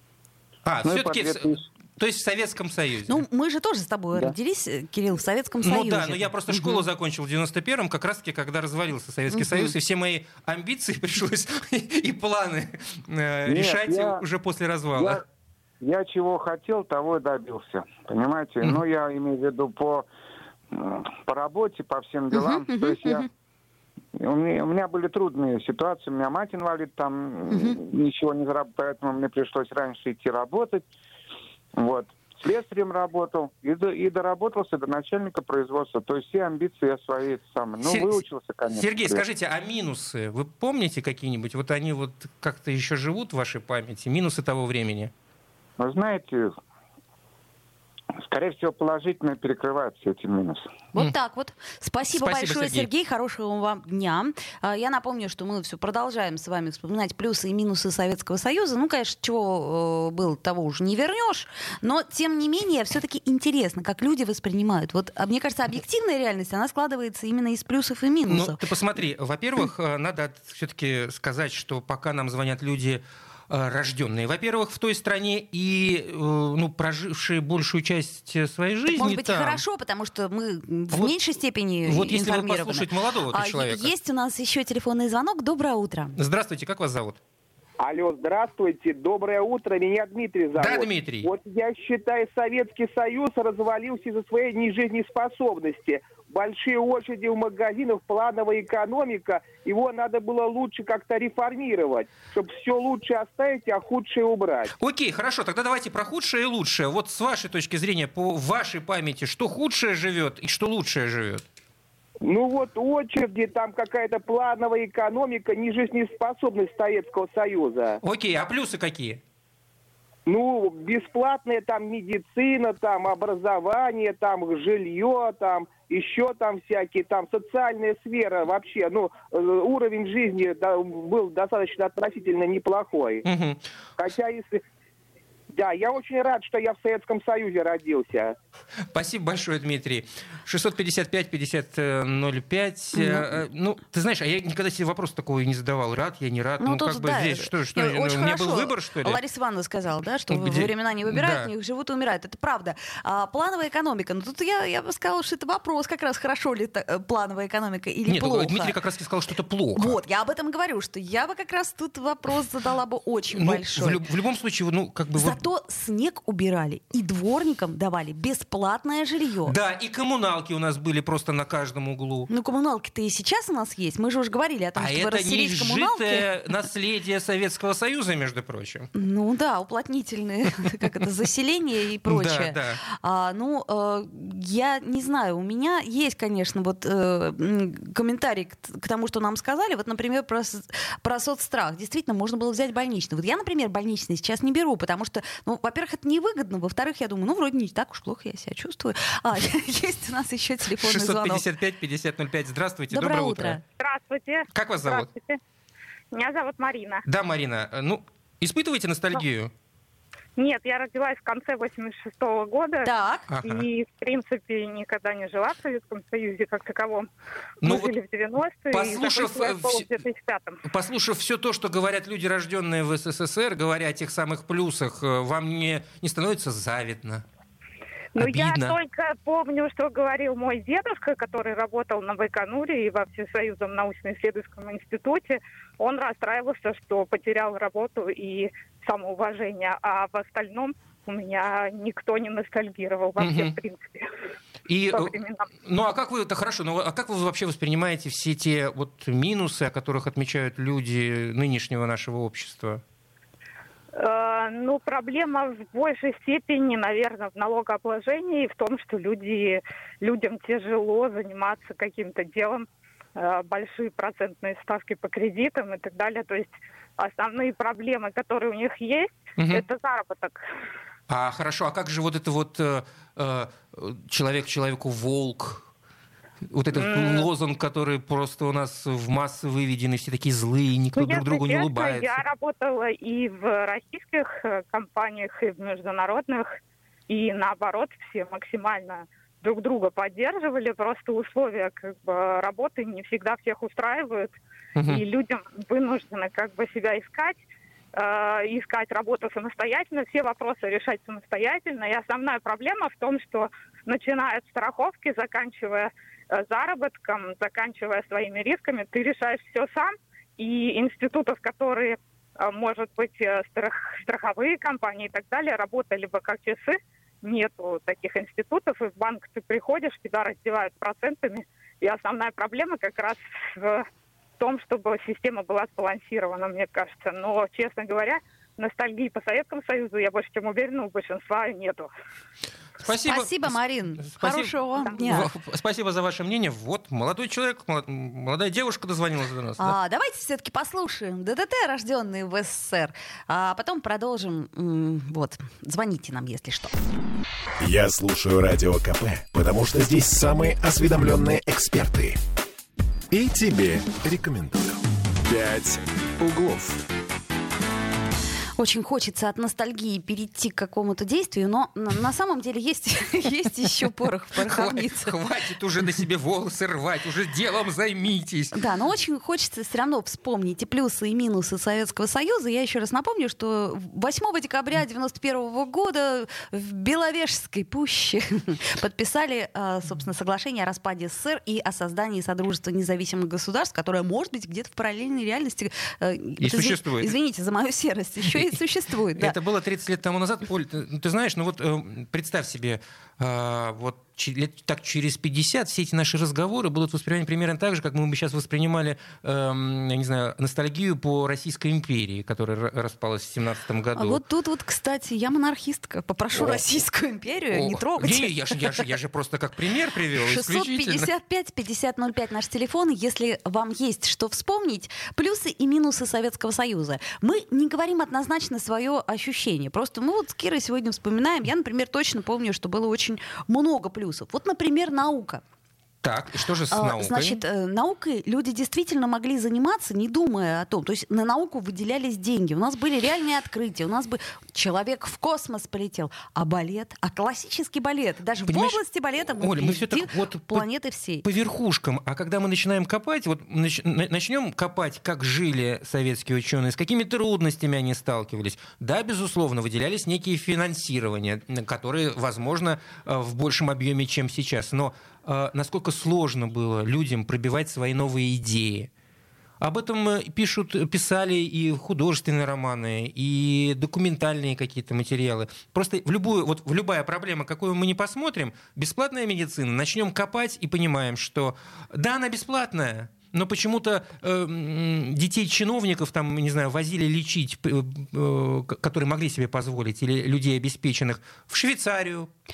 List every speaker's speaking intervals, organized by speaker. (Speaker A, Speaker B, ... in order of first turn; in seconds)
Speaker A: 0.6-3.2, 5.6-15.2, 37.8-38.2, 38.7-45.1, 52.1-52.9, 68.3-79.6, 81.8-83.9, 86.2-87.2, 90.6-91.3, 104.8-111.4, 118.0-119.2, 133.2-133.7, 138.9-149.2, 150.3-151.5, 158.1-160.0, 163.3-165.4, 169.4-172.3, 174.8-178.9, 182.1-182.8, 200.8-203.6, 204.5-205.1, 207.1-209.5, 213.3-213.7, 217.6-217.9, 218.7-219.9, 220.7-227.2, 228.2-228.7, 243.2-243.6, 244.7-252.8, 269.4-269.6, 271.1-275.7, 276.5-282.2, 294.8-295.0, 332.8-334.5, 335.1-339.8, 364.4-368.5, 386.4-387.1, 389.2-404.2, 407.5-411.1, 426.0-427.4, 438.5-438.8, 439.4-440.6, 441.2-458.9, 459.6-482.3
Speaker B: 0.8-1.6, 13.4-14.2, 14.9-15.2, 15.8-20.1, 20.7-23.2, 24.2-30.9, 31.8-39.2, 45.8-46.5, 48.2-50.7
Speaker C: 3.1-6.8, 9.3-9.7, 22.3-23.3, 27.5-27.8, 50.9-68.6, 78.9-86.2, 142.9-143.3, 146.6-158.7, 159.8-164.0, 165.1-169.5, 172.3-176.2, 178.9-201.4, 202.9-203.6, 212.8-213.3, 332.8-335.3, 339.6-346.7, 358.6-365.1, 368.5-389.4, 403.9-408.8, 410.2-425.4, 426.7-441.2
Speaker D: 87.8-104.7, 112.2-118.0, 120.3-133.2, 134.0-134.6, 135.5-138.3
Speaker E: 203.7-205.4, 206.1-207.0, 210.4-212.9, 213.4-217.1, 217.6-220.6, 228.1-244.1, 244.9-245.5, 253.9-270.4, 276.7-277.3, 280.9-286.6, 287.1-294.4, 294.9-297.4, 297.9-323.9, 324.4-331.9
Speaker F: 347.6-352.2, 353.1-356.8